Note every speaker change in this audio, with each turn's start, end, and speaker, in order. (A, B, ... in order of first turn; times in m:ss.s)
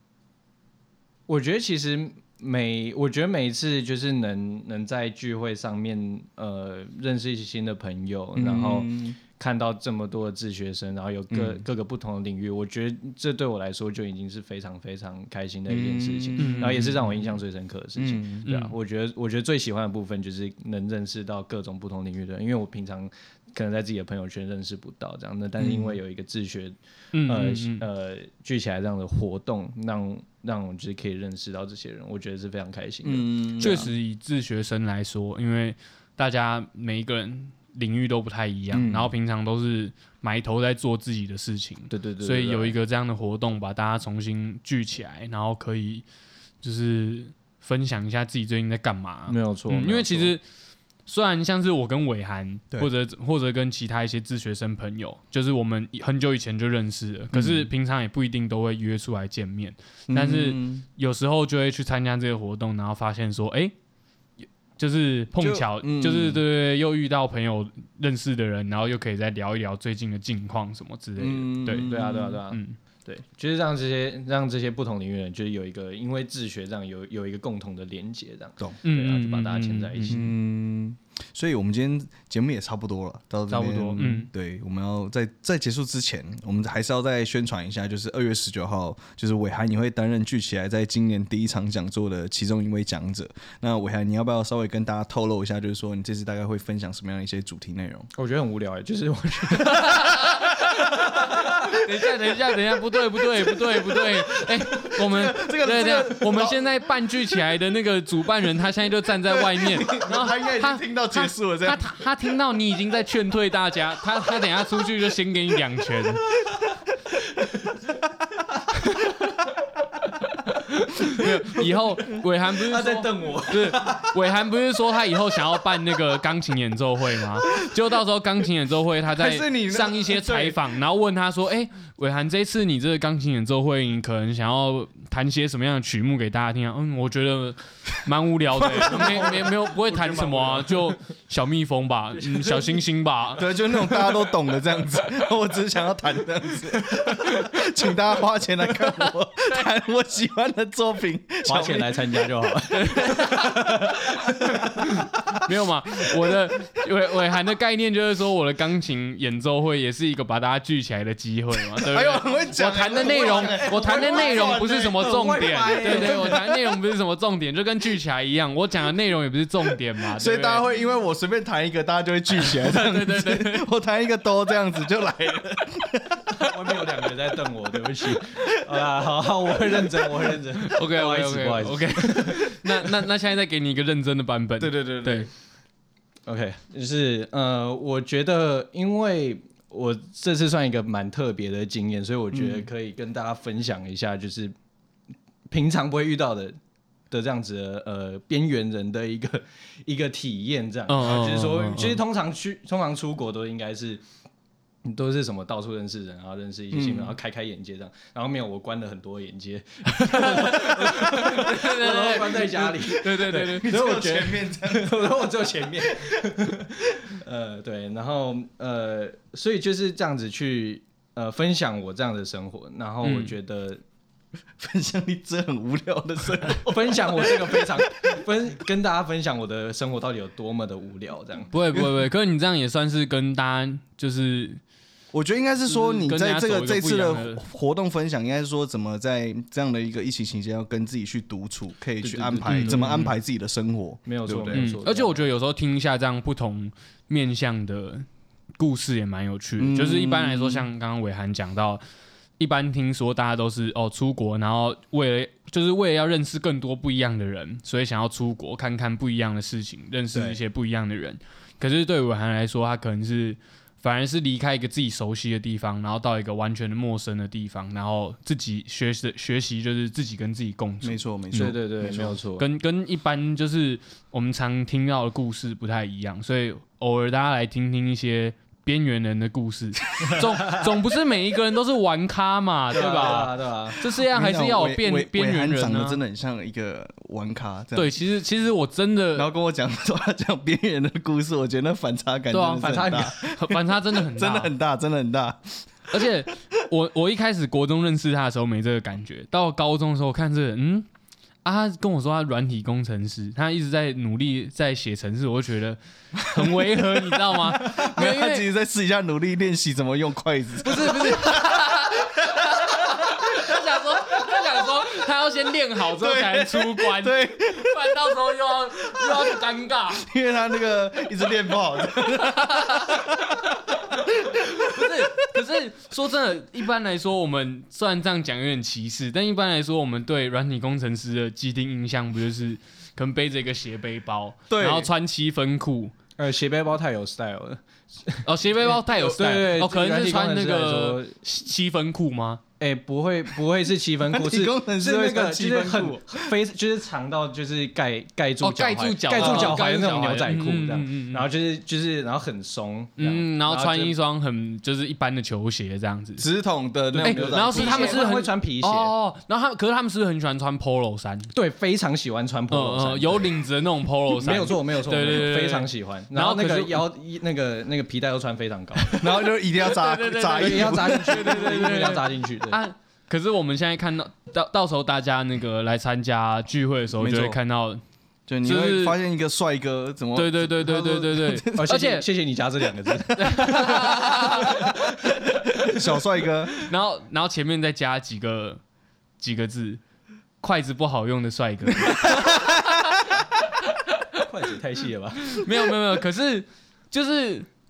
0:01.3-0:33.9 A
0:08.4-0:09.2 B
0:11.3-0:11.6 B
0:15.7-0:17.3 B
0:16.4-0:17.0 C
0:18.0-0:18.5 B
0:18.5-0:18.7 C
0:25.6-0:26.0 B
0:27.1-0:27.9 C
0:33.0-0:33.9 B
0:33.6-0:46.0 C
0:38.7-0:39.1 B
0:41.9-0:42.8 A
0:46.6-0:50.4 C
0:49.3-0:50.3 A
0:51.0-1:03.7 C
0:57.3-0:57.7 B
1:00.1-1:00.8 B
1:04.8-1:11.9 C
1:05.4-1:06.4 B
1:11.2-1:12.4 B
1:11.8-1:20.3 A
1:12.5-1:12.8 C
1:18.8-1:20.2 C
1:20.1-1:38.1 B
1:23.5-1:24.3 C
1:38.1-1:40.0 A
1:39.6-1:56.3 C
1:40.6-1:42.3 B
1:43.4-1:46.8 B
1:49.3-1:52.1 B
1:57.4-1:57.7 A
1:58.7-1:59.5 C
2:00.2-2:23.6 C
2:02.6-2:04.1 A
2:09.2-2:10.6 B
2:18.6-2:20.7 B
2:18.9-2:19.4 A
2:20.0-2:20.7 A
2:22.2-2:22.8 A
2:23.4-2:32.1 B
2:31.4-2:34.9 A
2:32.8-2:33.6 C
2:34.6-2:50.6 C
2:41.8-2:46.8 B
2:42.9-2:46.4 A
2:50.1-2:56.4 B
2:52.4-2:53.7 C
2:56.4-3:03.0 A
2:59.7-3:00.0 B
3:00.6-3:05.3 C
3:04.6-3:05.3 B
3:06.2-3:14.5 A
3:12.3-3:12.7 B
3:15.5-3:16.6 A
3:17.1-3:24.0 A
3:20.9-3:22.0 C
3:24.8-3:43.8 A
3:26.7-3:27.2 B
3:30.0-3:33.7 C
3:32.5-3:36.2 B
3:43.0-3:43.3 C
3:44.6-3:48.2 B
3:46.6-3:51.5 A
3:51.5-3:54.6 C
3:55.1-4:04.8 B
3:55.7-3:57.4 C
4:02.0-4:03.1 A
4:02.5-4:03.1 C
4:04.0-4:05.2 A
4:04.5-4:08.0 C
4:08.6-4:11.8 C
4:09.6-4:10.7 B
4:12.4-4:31.6 C
4:20.1-4:20.4 A
4:30.8-4:32.2 B
4:31.3-4:32.4 A
4:32.4-4:46.0 C
4:40.0-4:40.6 A
4:42.7-4:43.8 A
4:43.8-4:48.0 B
4:47.8-4:49.3 C
4:49.1-4:56.1 B
4:52.3-4:54.5 C
4:52.6-4:53.2 A
4:55.9-5:00.9 C
5:01.4-5:08.4 C
5:06.2-5:14.8 B
5:10.6-5:20.0 C
5:16.0-5:18.2 B
5:18.8-5:25.4 B
5:22.0-5:35.9 C
5:34.5-5:34.9 B
5:36.2-5:41.2 A
5:38.2-5:42.4 C
5:42.6-5:54.0 A
5:44.0-5:46.3 B
5:48.4-5:51.2 C
5:49.2-5:49.6 B
5:53.0-5:56.2 C
5:56.2-5:58.0 B
5:56.9-5:58.9 A
5:57.0-6:01.3 C
6:01.3-6:03.4 A
6:02.5-6:06.8 C
6:04.1-6:09.1 A
6:08.8-6:17.8 C
6:08.9-6:11.4 B
6:10.3-6:12.6 A
6:16.9-6:17.4 B
6:18.3-6:21.7 B
6:18.4-6:19.0 C
6:20.1-6:22.0 C
6:21.5-6:24.9 A
6:23.2-6:24.8 C
6:23.4-6:24.7 B
6:25.5-6:25.7 C
6:25.6-6:26.6 B
6:26.5-6:28.6 C
6:29.2-6:29.8 C
6:30.4-6:33.1 C
6:31.8-6:32.7 B
6:33.7-6:34.2 C
6:34.2-6:35.3 A
6:35.2-6:37.5 C